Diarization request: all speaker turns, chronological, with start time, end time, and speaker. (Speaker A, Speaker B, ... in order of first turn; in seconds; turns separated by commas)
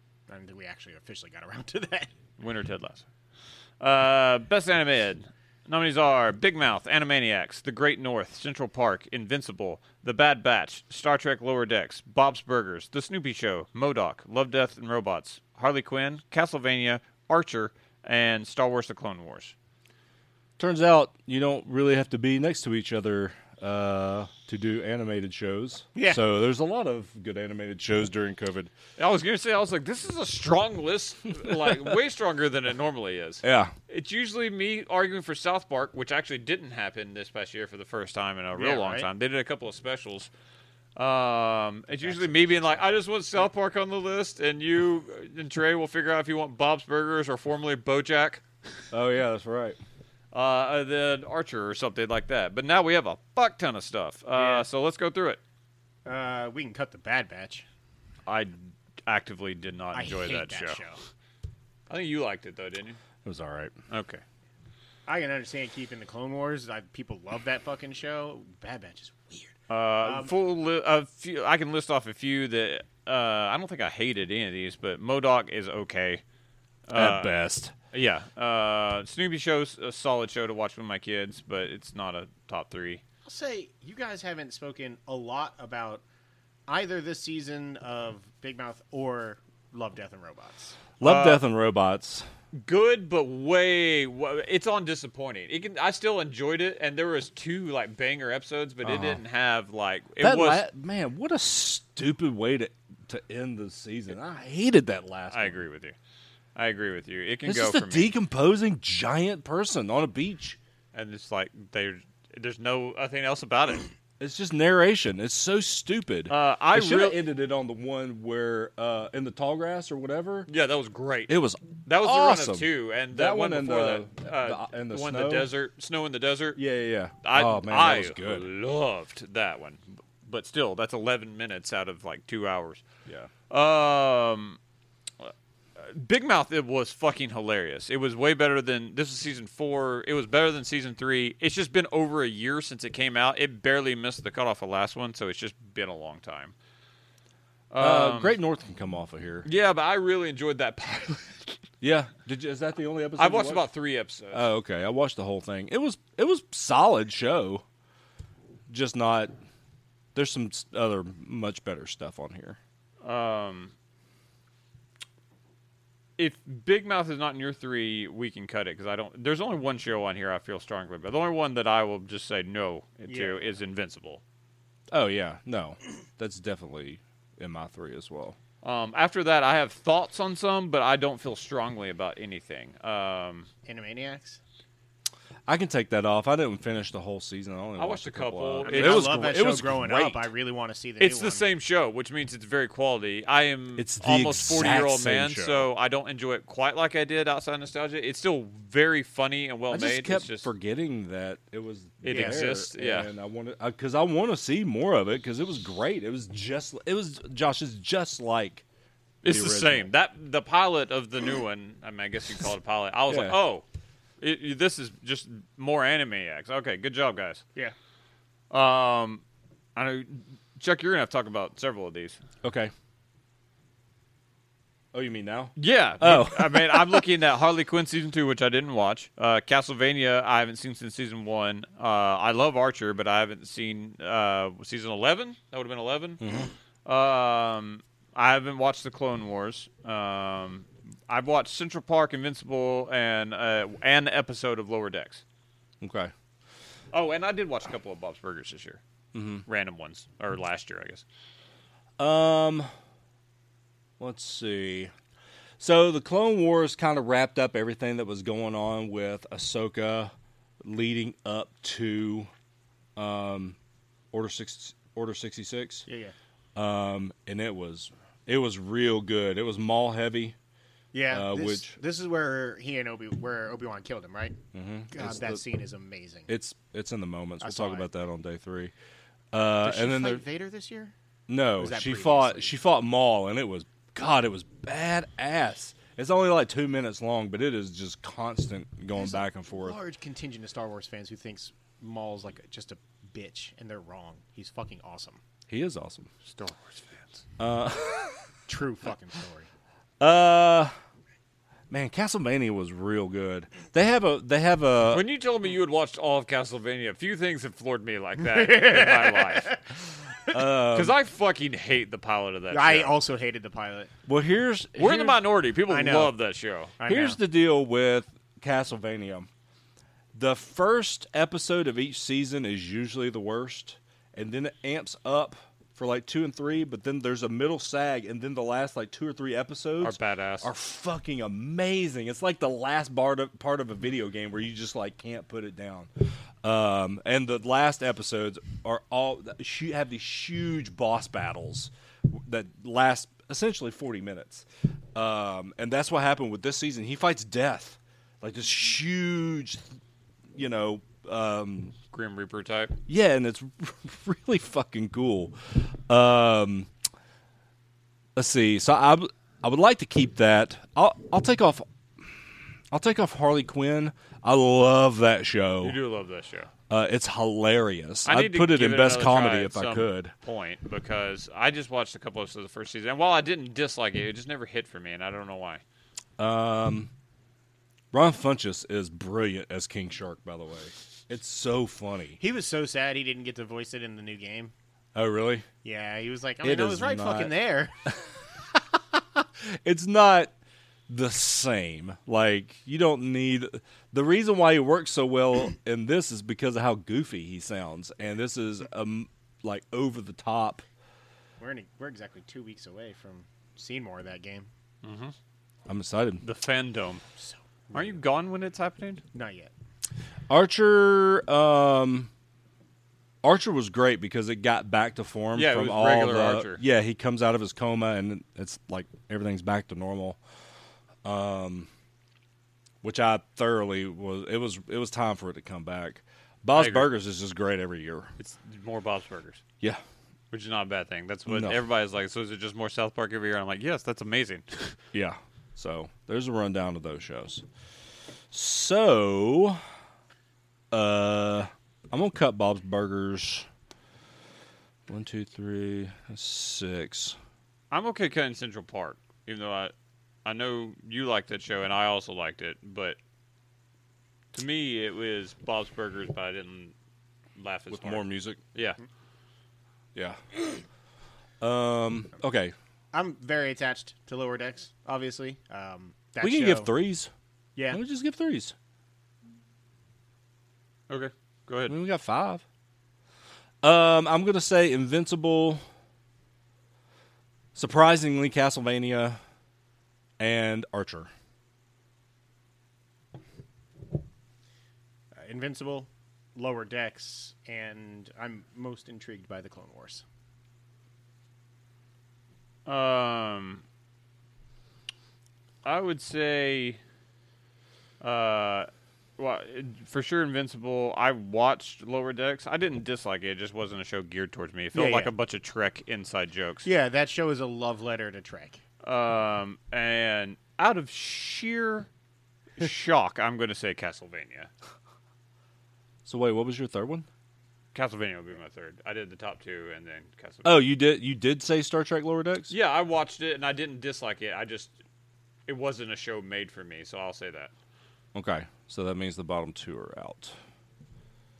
Speaker A: 0.3-2.1, Speaker B: 2.4-3.1, Speaker B: 3.8-19.5, Speaker C: 20.6-28.7, Speaker A: 25.9-26.2, Speaker B: 29.0-40.3, Speaker C: 33.4-33.7, Speaker A: 38.6-39.1, Speaker B: 41.0-48.4, Speaker A: 42.0-42.5, Speaker C: 48.9-49.8, Speaker B: 50.3-55.4, Speaker A: 54.3-54.7, Speaker A: 56.1-57.7, Speaker B: 58.3-58.5, Speaker B: 59.1-60.8, Speaker A: 59.9-61.0, Speaker B: 61.9-63.0, Speaker C: 63.2-63.7, Speaker B: 63.9-64.2, Speaker A: 65.1-70.3, Speaker B: 69.7-76.2, Speaker B: 76.9-77.3, Speaker C: 76.9-77.7, Speaker B: 77.9-83.0, Speaker A: 83.2-86.0, Speaker A: 86.7-90.8, Speaker C: 91.0-92.3, Speaker B: 91.0-91.4, Speaker B: 92.5-100.6, Speaker C: 98.8-99.2, Speaker C: 100.2-105.6, Speaker B: 105.3-106.0, Speaker B: 106.5-108.1, Speaker C: 107.5-110.6, Speaker B: 110.9-113.9, Speaker C: 114.2-120.5, Speaker B: 116.3-117.2, Speaker B: 120.5-126.6, Speaker C: 121.3-125.5, Speaker C: 126.6-128.5, Speaker B: 127.2-132.8, Speaker B: 133.5-134.6, Speaker B: 135.2-146.5, Speaker B: 147.7-148.4, Speaker C: 147.8-149.5, Speaker B: 149.4-151.6, Speaker C: 151.8-153.7, Speaker B: 153.2-154.5, Speaker C: 154.3-157.6, Speaker C: 158.7-159.3, Speaker C: 160.2-162.6, Speaker B: 163.0-163.7, Speaker B: 166.2-174.2, Speaker A: 173.1-173.6, Speaker C: 174.9-178.4, Speaker B: 178.6-183.5, Speaker A: 183.7-184.4, Speaker C: 185.5-190.3, Speaker B: 187.8-189.3, Speaker A: 188.6-191.5, Speaker B: 191.0-200.5, Speaker C: 193.8-195.7, Speaker C: 199.7-208.7, Speaker B: 202.0-203.1, Speaker A: 202.1-202.5, Speaker B: 209.2-213.6, Speaker C: 209.2-209.9, Speaker C: 213.1-213.4, Speaker B: 214.2-217.4, Speaker B: 218.5-219.2, Speaker B: 219.8-222.2, Speaker C: 222.4-222.7, Speaker C: 224.9-227.1, Speaker B: 225.6-236.2, Speaker C: 236.2-236.5, Speaker B: 236.8-245.2, Speaker C: 245.8-246.1, Speaker B: 246.9-248.8, Speaker C: 249.1-249.4, Speaker B: 249.5-251.0, Speaker C: 252.0-252.7, Speaker C: 254.0-254.9, Speaker C: 255.6-262.3, Speaker C: 263.0-263.6, Speaker C: 264.1-265.9, Speaker A: 265.9-266.1, Speaker C: 266.6-270.4, Speaker A: 270.9-274.4, Speaker C: 271.1-271.8, Speaker C: 274.5-275.4, Speaker A: 274.9-276.3, Speaker C: 276.3-278.7, Speaker A: 277.4-277.9, Speaker C: 279.3-280.2, Speaker A: 279.6-280.9, Speaker C: 281.3-289.8, Speaker A: 281.6-282.5, Speaker A: 288.9-295.2, Speaker C: 295.5-296.1, Speaker B: 296.3-297.2, Speaker C: 297.4-298.2, Speaker A: 298.5-299.5, Speaker C: 300.0-300.7, Speaker C: 301.7-305.0, Speaker B: 304.9-309.6, Speaker A: 308.2-309.6, Speaker C: 310.3-311.0, Speaker B: 310.7-313.0, Speaker A: 312.5-313.9, Speaker C: 314.1-315.2, Speaker B: 314.8-316.7, Speaker A: 315.7-316.1, Speaker A: 316.8-317.2, Speaker C: 316.9-319.3, Speaker C: 320.1-349.6, Speaker B: 329.8-330.5, Speaker C: 350.3-351.7, Speaker B: 351.9-352.8, Speaker C: 352.9-356.7, Speaker C: 358.1-361.7, Speaker C: 362.7-365.8, Speaker B: 365.6-366.5, Speaker C: 366.7-370.1, Speaker B: 368.1-375.6, Speaker C: 376.2-376.9, Speaker C: 377.9-382.2, Speaker A: 382.2-384.5, Speaker C: 384.9-385.5, Speaker A: 385.6-387.7, Speaker C: 386.4-387.3, Speaker C: 389.4-390.3, Speaker C: 390.9-400.6, Speaker A: 401.4-404.5, Speaker B: 404.8-405.1, Speaker C: 405.7-406.2, Speaker B: 406.2-407.0, Speaker A: 407.2-408.0, Speaker B: 407.7-409.0, Speaker A: 409.1-409.5, Speaker C: 410.3-412.1, Speaker C: 413.2-420.2, Speaker B: 415.4-416.6, Speaker C: 421.0-421.7, Speaker C: 422.8-428.1, Speaker B: 426.6-426.9, Speaker B: 428.2-429.4, Speaker B: 430.3-434.8, Speaker C: 431.3-431.6, Speaker C: 434.9-437.4, Speaker C: 438.3-439.6, Speaker C: 440.7-443.5, Speaker C: 444.9-447.2, Speaker B: 447.7-449.7, Speaker B: 450.2-453.0, Speaker B: 454.3-456.7, Speaker B: 457.4-458.8, Speaker C: 457.7-458.4, Speaker C: 459.9-460.6, Speaker C: 461.4-462.5, Speaker A: 462.9-466.7, Speaker C: 466.2-467.1, Speaker C: 467.7-468.5, Speaker B: 470.9-471.8, Speaker C: 471.7-472.4, Speaker C: 473.6-475.6, Speaker C: 477.6-479.2, Speaker C: 480.2-481.1, Speaker A: 485.2-490.0, Speaker B: 492.7-493.6, Speaker B: 495.6-496.8, Speaker B: 498.0-506.7, Speaker A: 504.7-505.1, Speaker A: 506.6-508.6, Speaker B: 508.8-511.9, Speaker B: 512.6-514.5, Speaker C: 516.0-517.1, Speaker B: 517.7-520.6, Speaker C: 520.5-522.5, Speaker B: 522.5-524.7, Speaker B: 525.5-527.5, Speaker C: 528.1-530.3